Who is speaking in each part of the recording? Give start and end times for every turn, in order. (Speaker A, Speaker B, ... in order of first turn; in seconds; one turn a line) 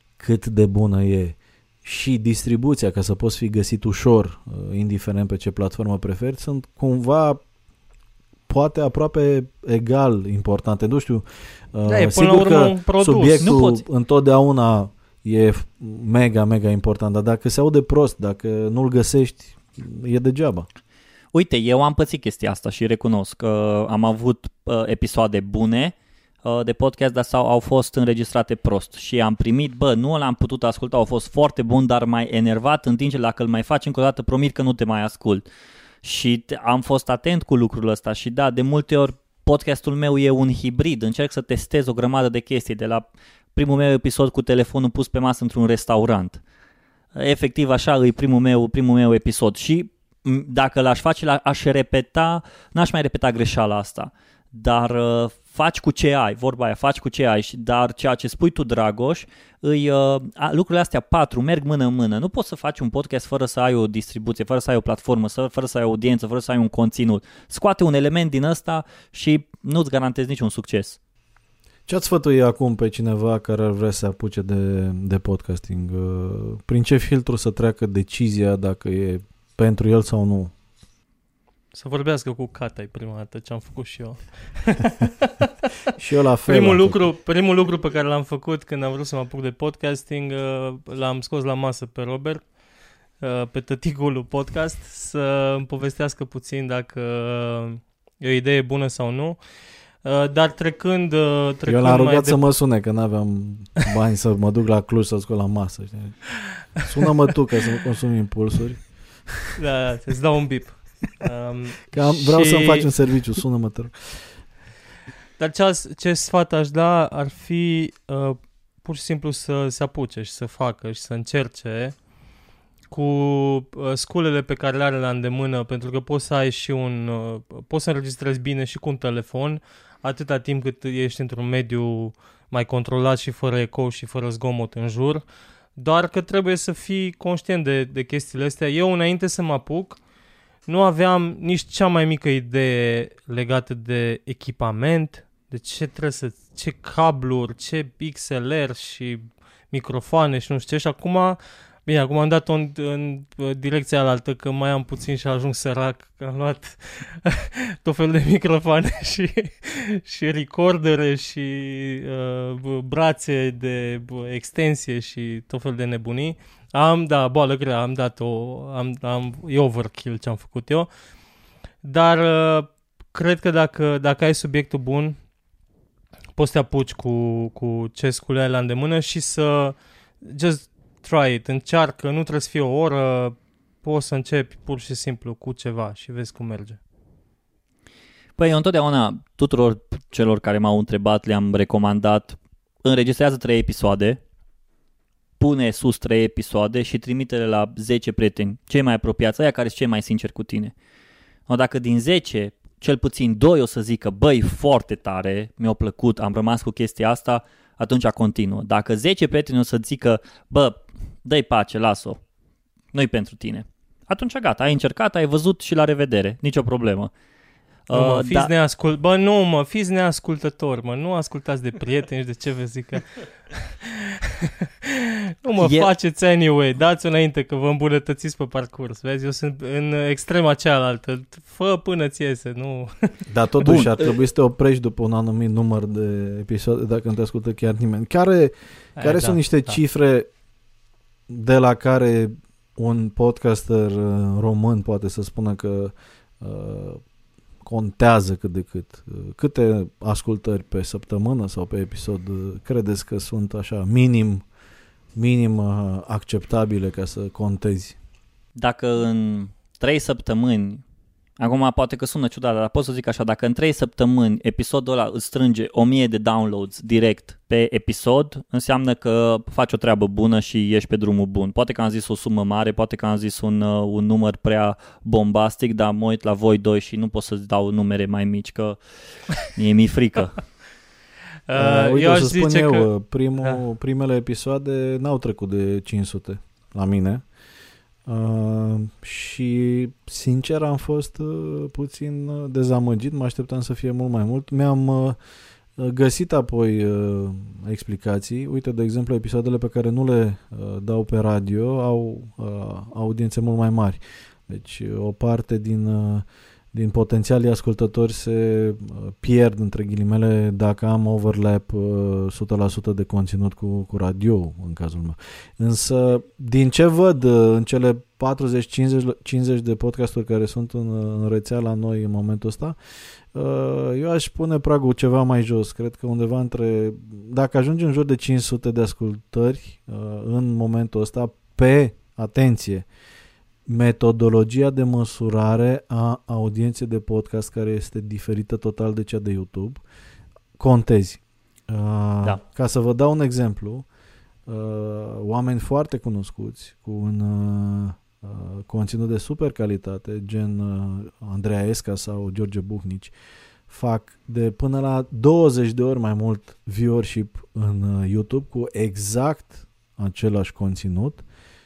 Speaker A: 0.2-7.4
Speaker A: 8.5-20.7
Speaker B: 11.9-13.8
Speaker C: 21.3-35.4
Speaker C: 36.0-46.4
Speaker C: 47.1-71.0
Speaker A: 71.9-80.5
Speaker B: 81.7-85.5
Speaker A: 86.0-87.0
Speaker B: 86.5-92.4
Speaker B: 93.2-99.4
Speaker B: 100.0-102.5
Speaker A: 101.7-109.5
Speaker B: 109.6-112.9
Speaker A: 111.9-114.3
Speaker B: 115.4-122.0
Speaker B: 122.9-135.2
Speaker B: 135.8-140.0
Speaker B: 140.7-170.9
Speaker B: 171.8-175.2
Speaker B: 176.3-186.8
Speaker C: 188.4-194.2
Speaker C: 195.4-200.7
Speaker C: 201.5-212.2
Speaker C: 212.9-217.1
Speaker C: 217.9-218.5
Speaker B: 217.9-224.1
Speaker B: 224.8-233.2
Speaker C: 225.6-225.9
Speaker A: 233.3-240.3
Speaker C: 233.6-234.1
Speaker B: 239.0-239.8
Speaker A: 241.3-247.0
Speaker A: 247.6-254.4
Speaker A: 255.1-258.0
Speaker C: 258.6-260.8
Speaker C: 261.4-278.8
Speaker C: 279.3-280.4
Speaker B: 281.5-282.9
Speaker A: 281.5-287.2
Speaker A: 288.1-295.2
Speaker A: 295.8-322.8
Speaker A: 323.3-332.9
Speaker A: 333.7-339.8
Speaker A: 340.6-343.9
Speaker A: 344.5-353.1
Speaker A: 353.7-361.2